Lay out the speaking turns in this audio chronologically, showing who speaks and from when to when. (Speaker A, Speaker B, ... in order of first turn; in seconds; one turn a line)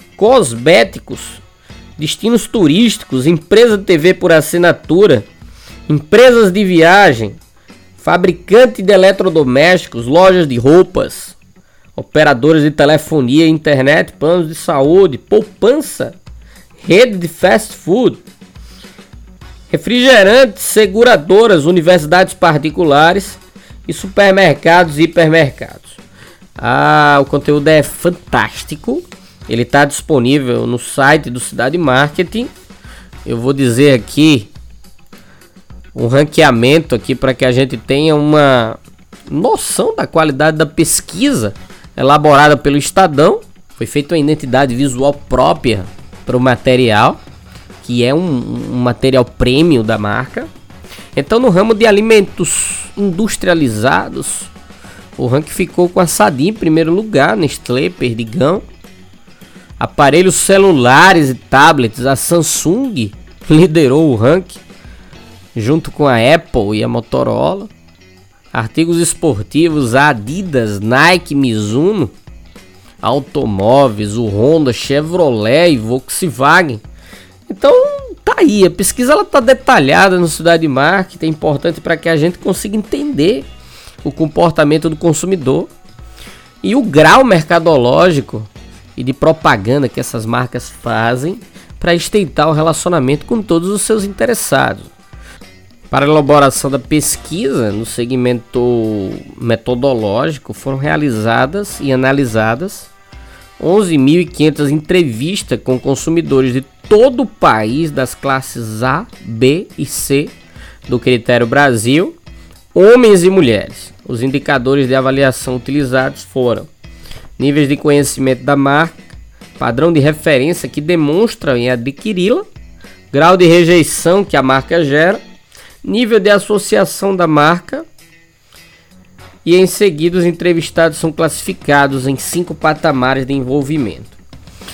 Speaker A: 0.2-1.4
Speaker A: 2.0-5.3
Speaker A: 5.9-7.4
Speaker A: 8.0-11.3
Speaker A: 11.9-16.2
Speaker A: 16.8-18.2
Speaker A: 19.7-26.0
Speaker A: 26.6-32.5
Speaker A: 33.2-34.5
Speaker A: 35.9-47.2
Speaker A: 47.8-50.5
Speaker A: 51.1-54.5
Speaker A: 55.2-58.6
Speaker A: 59.8-64.6
Speaker A: 65.5-67.7
Speaker A: 68.5-72.1
Speaker A: 73.0-76.8
Speaker A: 77.5-83.5
Speaker A: 84.0-85.7
Speaker A: 86.6-94.9
Speaker A: 95.9-102.9
Speaker A: 103.6-110.3
Speaker A: 110.9-112.2
Speaker A: 112.7-116.7
Speaker A: 117.4-122.5
Speaker A: 123.1-125.2
Speaker A: 125.8-127.8
Speaker A: 129.4-134.2